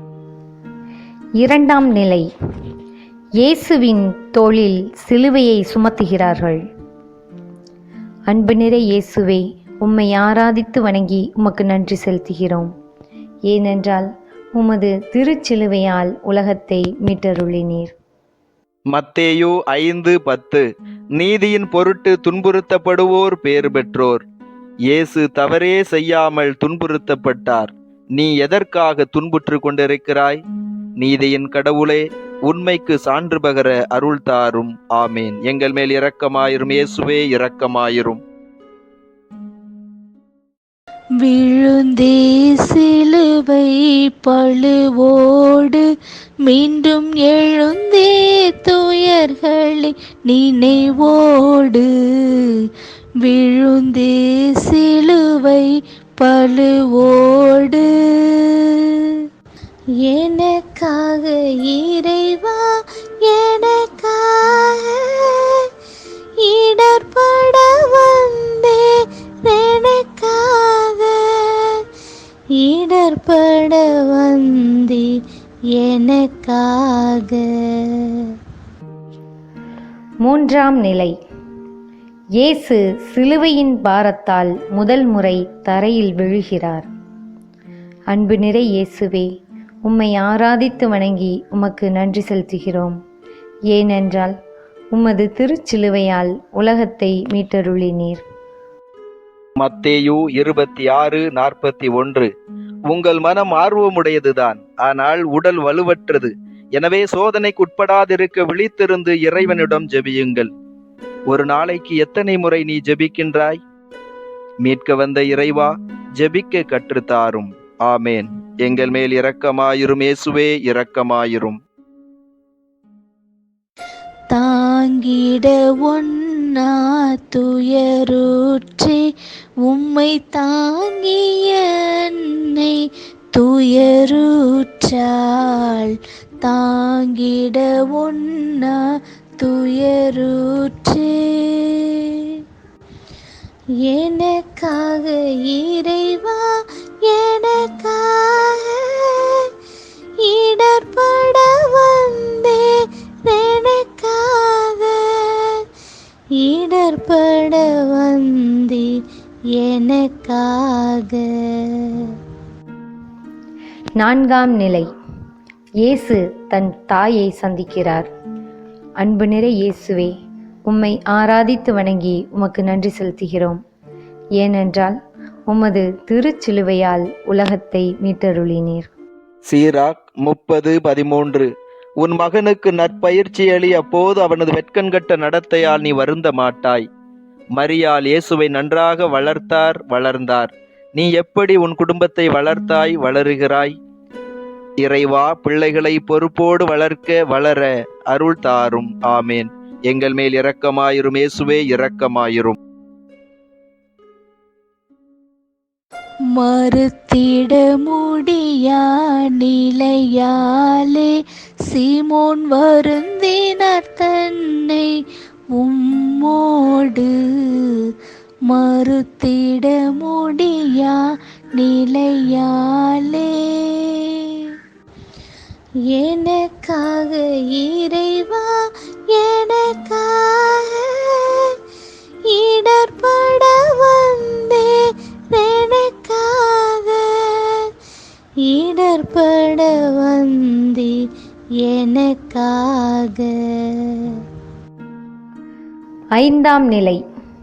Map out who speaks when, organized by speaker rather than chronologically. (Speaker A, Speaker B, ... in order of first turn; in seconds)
Speaker A: 1.4-2.3, 3.4-6.6, 8.3-12.7, 13.5-17.9, 80.2-81.1, 82.4-86.8, 88.1-89.3, 89.8-93.0, 93.7-94.3, 94.9-98.2, 164.0-164.9, 165.8-168.1, 169.0-170.1, 170.7-173.6, 174.4-174.9, 175.5-178.9, 246.2-247.0
Speaker B: 18.9-24.2, 24.9-30.4, 31.0-38.2, 99.6-102.3, 102.9-110.5, 111.3-113.6, 114.6-121.6, 179.4-186.8, 187.6-193.8, 194.8-202.6
Speaker C: 41.2-45.9, 46.5-52.6, 53.2-59.0, 60.0-65.7, 66.4-71.8, 72.5-75.2, 75.7-78.3, 124.3-129.0, 129.7-142.3, 143.8-149.5, 150.2-155.6, 156.4-158.9, 159.6-162.2, 206.3-211.1, 211.7-214.9, 215.6-217.9, 218.5-221.0, 221.6-224.4, 225.9-231.6, 232.2-237.7, 238.4-241.1, 241.6-244.2